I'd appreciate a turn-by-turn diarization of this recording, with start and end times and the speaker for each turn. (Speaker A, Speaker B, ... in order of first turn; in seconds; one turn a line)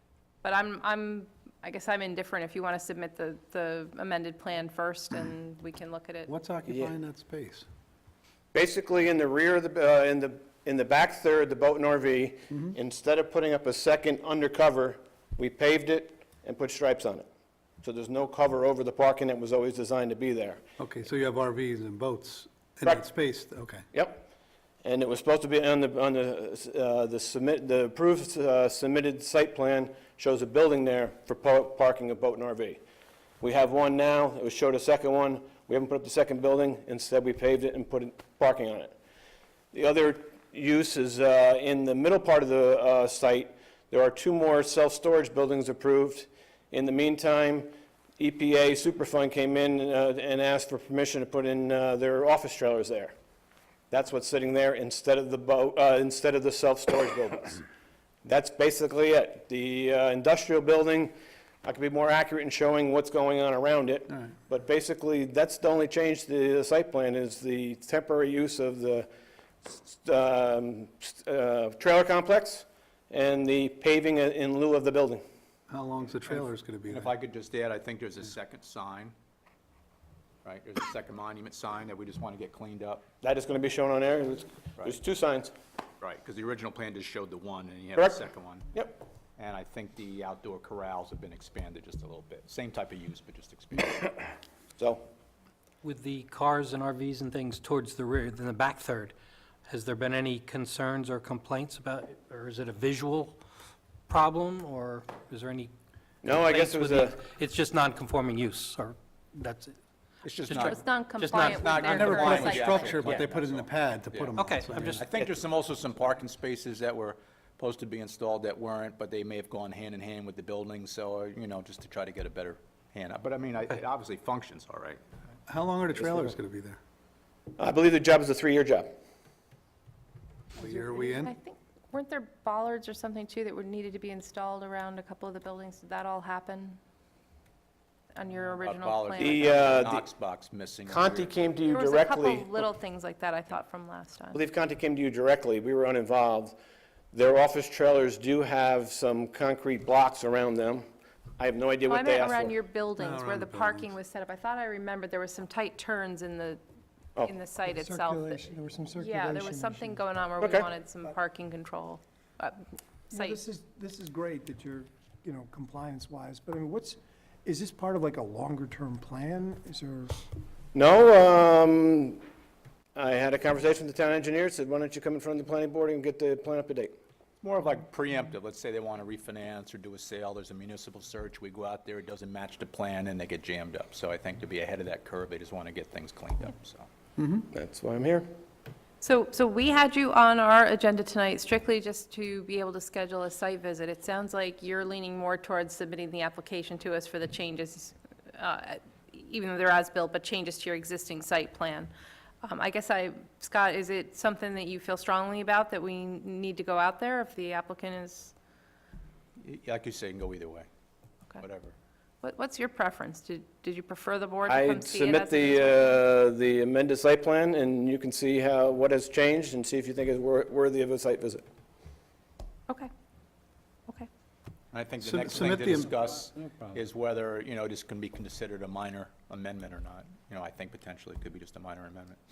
Speaker A: 0.4-6.3
Speaker B: 6.3-7.7
Speaker C: 8.5-17.2
Speaker C: 17.8-20.6
Speaker B: 20.8-23.9
Speaker C: 23.9-24.2
Speaker C: 24.8-32.8
Speaker C: 33.4-38.9
Speaker C: 39.7-53.1
Speaker C: 53.9-57.6
Speaker C: 58.2-61.1
Speaker C: 61.6-69.1
Speaker C: 69.6-75.2
Speaker B: 75.7-77.1
Speaker D: 76.9-79.1
Speaker D: 80.4-83.0
Speaker C: 83.2-85.5
Speaker D: 86.0-88.7
Speaker C: 88.0-88.2
Speaker C: 88.7-89.0
Speaker D: 89.4-94.3
Speaker C: 94.8-95.0
Speaker E: 95.8-99.1
Speaker E: 99.7-103.4
Speaker E: 104.1-105.7
Speaker C: 106.2-107.2
Speaker E: 106.2-109.8
Speaker D: 110.2-125.0
Speaker E: 110.4-112.3
Speaker A: 110.5-113.1
Speaker B: 111.9-115.1
Speaker E: 114.4-115.0
Speaker B: 125.5-126.8
Speaker C: 127.6-128.9
Speaker B: 130.5-131.3
Speaker A: 130.6-136.8
Speaker A: 138.1-139.8
Speaker D: 138.6-141.3
Speaker C: 139.2-140.1
Speaker C: 140.9-142.6
Speaker A: 141.7-144.4
Speaker C: 144.3-146.5
Speaker C: 147.1-150.8
Speaker C: 151.4-152.5
Speaker A: 151.9-156.6
Speaker B: 153.0-153.9
Speaker A: 157.2-162.6
Speaker F: 157.6-160.0
Speaker C: 160.4-160.7
Speaker F: 163.1-170.2
Speaker A: 163.1-163.4
Speaker C: 170.7-172.2
Speaker C: 172.9-176.9
Speaker D: 177.4-186.9
Speaker B: 187.2-187.4
Speaker C: 187.5-188.3
Speaker A: 189.0-201.9
Speaker A: 202.4-208.3
Speaker D: 209.4-210.7
Speaker D: 211.4-211.7
Speaker A: 212.2-215.9
Speaker C: 214.5-221.4
Speaker D: 224.7-232.2
Speaker B: 225.0-225.9